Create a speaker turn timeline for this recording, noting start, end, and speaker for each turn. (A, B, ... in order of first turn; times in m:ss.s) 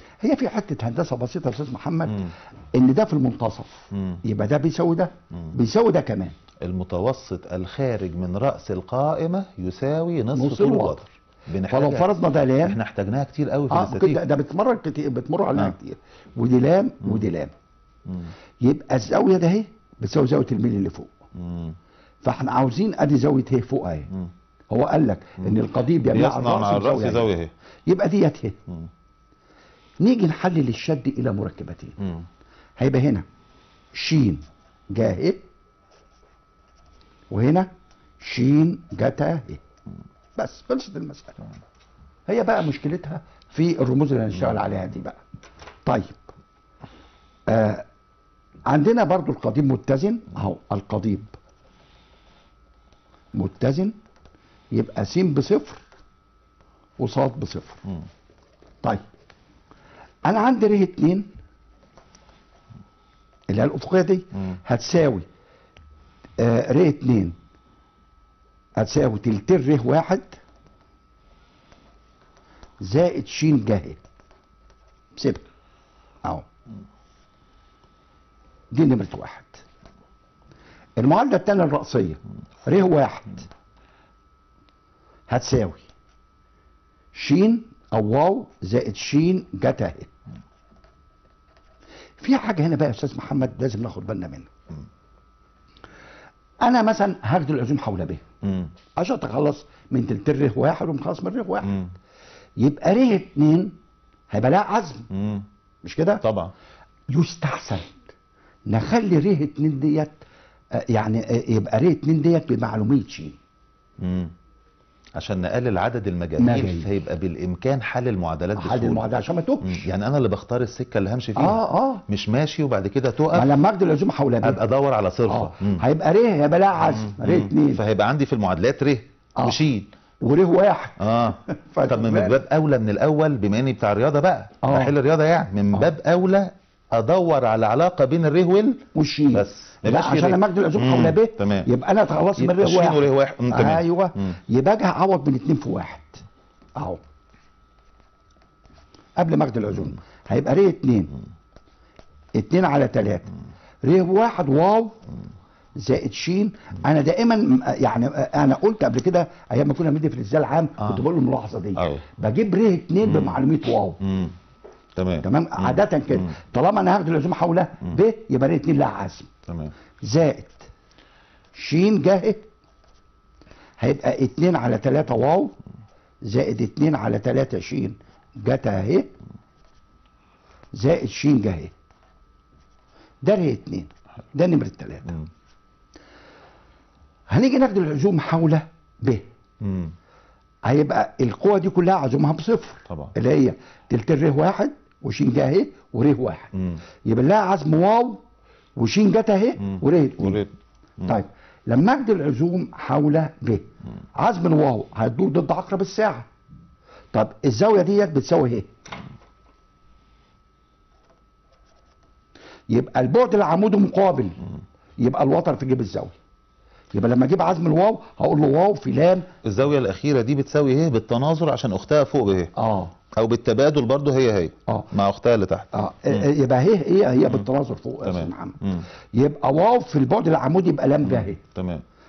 0:00.2-0:06.4 A
0:03.9-0:04.2 B
0:06.6-0:14.2 B
0:10.3-0:11.0 A
0:11.7-0:12.8 A
0:13.7-0:17.5 A
0:18.1-0:18.3 B
0:18.6-0:21.1 A
0:21.4-0:21.8 B
0:22.2-0:24.1 A
0:24.7-0:27.3 A
0:26.1-0:27.5 B
0:27.9-0:28.6 A
0:30.0-0:32.0 A
0:32.0-0:32.3 B
0:32.8-0:33.2 A
0:33.9-0:35.4 A
0:37.3-0:39.6 A
0:40.4-0:41.4 A
0:42.3-0:45.2 A
0:45.8-0:46.2 A
0:47.5-0:47.8 A
0:48.7-0:51.4 A
0:53.3-0:54.0 A
0:54.7-0:55.8 A
0:57.0-0:57.8 A
1:00.2-1:01.3 A
1:03.5-1:05.3 A
1:06.4-1:07.4 A
1:08.8-1:10.4 A
1:12.8-1:14.0 A
1:15.2-1:15.4 A
1:18.7-1:19.6 A
1:21.0-1:23.5 A
1:25.3-1:25.8 A
1:27.1-1:30.1 A
1:32.2-1:34.5 A
1:36.6-1:38.2 A
1:38.4-1:38.7 B
1:39.0-1:41.8 A
1:41.6-1:41.9 B
1:42.6-1:43.8 A
1:44.3-1:45.1 A
1:45.1-1:45.5 B
1:45.8-1:46.2 A
1:46.2-1:46.5 B
1:47.1-1:48.0 A
1:48.7-1:50.2 A
1:50.7-1:53.4 A
1:54.0-1:54.3 B
1:55.2-1:59.1 B
1:56.4-1:56.9 A
1:58.6-1:59.9 A
1:59.6-2:03.5 B
2:01.4-2:02.0 A
2:03.3-2:04.6 A
2:04.4-2:05.8 B
2:05.3-2:07.8 A
2:06.8-2:09.9 B
2:10.2-2:12.4 A
2:11.0-2:21.7 B
2:14.6-2:14.9 A
2:18.9-2:26.2 A
2:22.4-2:24.3 B
2:26.8-2:27.0 A
2:29.2-2:31.1 A
2:32.4-2:33.3 A
2:33.8-2:35.0 A
2:35.8-2:44.0 A
2:41.8-2:42.0 B
2:43.0-2:43.4 B
2:44.0-2:44.4 B
2:45.0-2:46.3 B
2:45.2-2:49.3 A
2:49.5-2:49.7 B
2:50.0-2:50.7 A
2:51.6-2:52.5 A
2:53.8-2:55.6 A
2:56.2-2:59.1 A
3:00.8-3:01.7 A
3:03.2-3:05.2 A
3:07.3-3:09.3 A
3:09.6-3:10.0 B
3:10.6-3:16.5 A
3:12.9-3:13.2 B
3:16.5-3:16.8 B
3:17.0-3:18.2 A
3:18.8-3:20.4 A
3:19.6-3:21.2 B
3:21.0-3:26.3 A
3:27.1-3:28.7 A
3:32.7-3:34.4 A
3:35.0-3:36.2 A
3:36.9-3:39.3 A
3:39.4-3:42.5 B
3:42.6-3:42.9 A
3:43.1-3:46.3 B
3:45.7-3:51.4 A
3:47.2-3:47.5 B
3:48.0-3:48.9 B
3:51.0-3:51.8 B